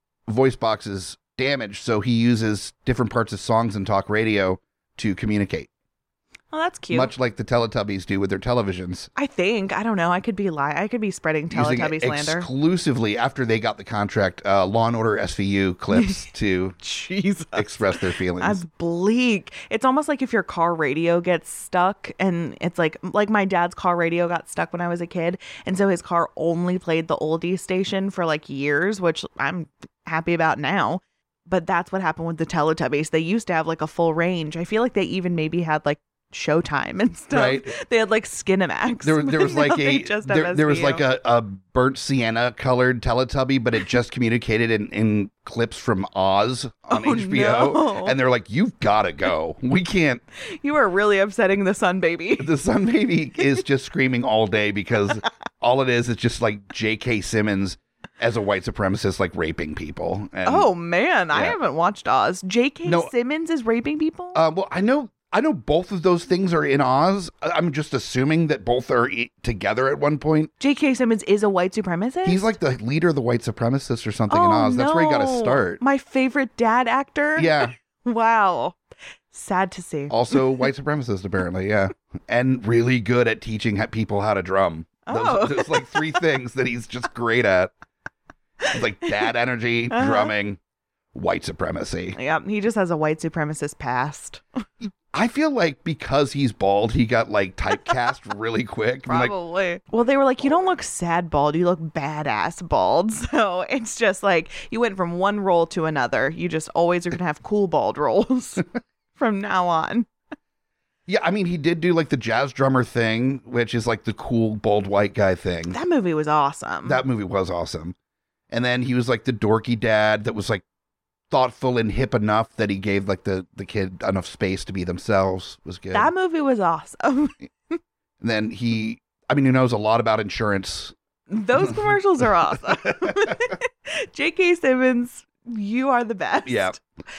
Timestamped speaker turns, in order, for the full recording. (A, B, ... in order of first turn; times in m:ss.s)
0:00.3-0:05.7 A
0:06.5-0:07.1 B
0:06.9-0:09.1 A
0:09.2-0:12.5 B
0:11.5-0:16.8 A
0:15.9-0:16.2 B
0:16.8-0:41.0 B
0:17.5-0:18.6 A
0:37.3-0:37.7 A
0:39.0-0:50.2 A
0:46.9-0:48.2 B
0:50.4-0:52.5 B
0:52.4-1:00.7 A
1:00.4-1:04.4 B
1:02.8-1:03.1 A
1:04.3-1:10.5 A
1:10.6-1:12.5 B
1:12.2-1:15.8 A
1:14.3-1:18.8 B
1:17.4-1:17.7 A
1:19.3-1:20.4 B
1:20.1-1:27.7 A
1:25.1-1:26.2 B
1:28.7-1:30.6 A
1:29.9-1:30.3 B
1:31.1-1:32.2 A
1:32.2-1:34.4 B
1:35.1-1:39.3 A
1:39.1-1:48.6 B
1:49.2-1:50.1 B
1:51.1-1:55.8 A
1:55.7-1:57.0 B
1:56.8-1:58.0 A
1:58.5-2:00.6 A
2:01.3-2:06.1 A
2:05.9-2:07.8 B
2:08.2-2:10.9 A
2:11.3-2:16.8 B
2:12.9-2:13.4 A
2:16.4-2:16.8 A